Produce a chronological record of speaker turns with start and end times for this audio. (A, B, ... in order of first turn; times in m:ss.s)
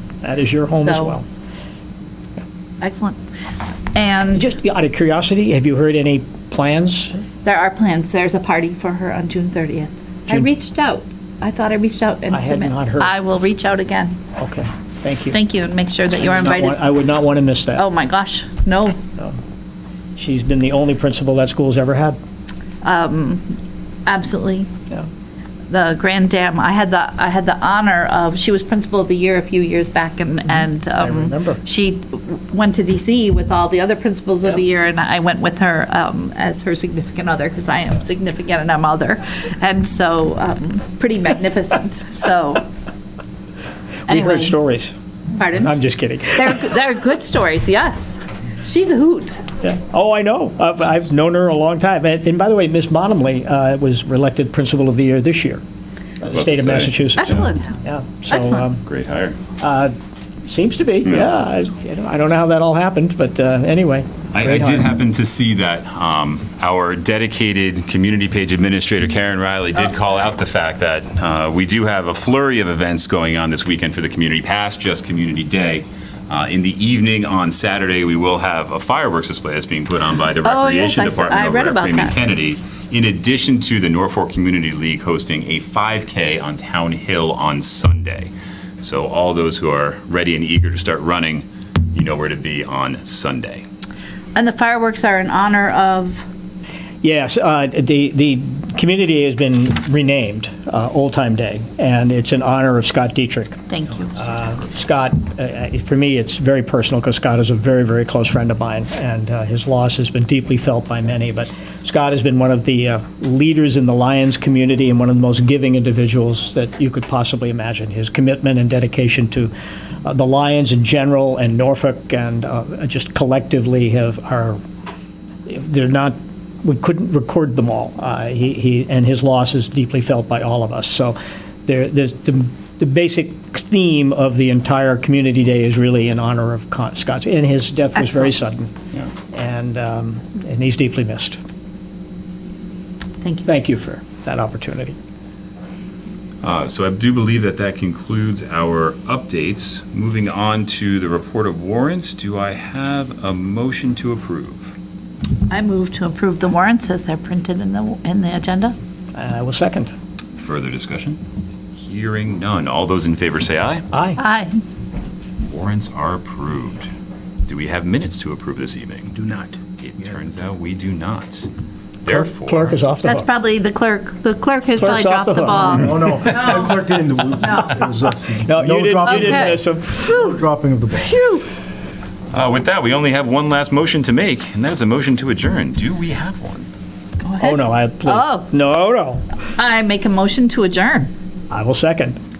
0:00.2-0:01.2 A
0:00.7-0:01.2 B
0:02.8-0:03.2 B
0:03.9-0:04.5 B
0:04.3-0:07.2 A
0:07.4-0:14.2 B
0:12.3-0:13.1 A
0:14.4-0:15.4 A
0:15.3-0:16.8 B
0:16.2-0:17.8 A
0:17.8-0:19.0 B
0:20.2-0:22.2 A
0:22.8-0:23.5 B
0:24.0-0:24.7 B
0:25.7-0:42.6 B
0:31.0-0:31.6 A
0:44.1-0:44.6 B
0:44.1-0:44.9 A
0:45.3-0:49.4 B
0:45.6-0:46.7 A
0:49.6-0:55.6 A
0:56.2-0:58.8 A
0:56.2-0:57.4 C
0:57.2-0:58.7 B
0:58.8-0:59.4 C
0:59.6-0:59.9 A
1:00.4-1:04.9 A
1:01.0-1:01.3 C
1:04.3-1:33.6 C
1:20.4-1:22.2 B
1:34.3-1:36.2 B
1:37.0-1:43.6 A
1:43.7-1:44.2 B
1:44.2-1:59.5 A
2:00.0-2:04.6 A
2:05.4-2:18.7 A
2:18.0-2:18.3 B
2:19.3-2:21.4 A
2:23.2-2:23.5 B
2:23.4-2:25.0 A
2:26.4-2:34.8 C
2:35.5-2:38.7 B
2:39.1-2:39.9 A
2:40.4-2:41.2 C
2:41.8-2:43.8 C
2:43.9-2:44.2 A
2:44.2-2:44.6 B
2:45.5-2:46.9 C
2:47.4-2:51.5 C
2:49.2-2:49.5 D
2:52.0-2:52.8 C
2:52.1-2:53.3 A
2:53.0-2:56.8 B
2:54.7-2:56.5 A
2:55.7-2:59.4 D
2:57.4-2:57.8 B
2:58.3-3:00.2 A
2:59.0-3:01.4 B
3:00.1-3:01.1 D
3:02.3-3:06.7 C
3:07.2-3:08.5 B
3:07.4-3:09.2 A
3:09.5-3:11.1 B
3:11.5-3:12.2 A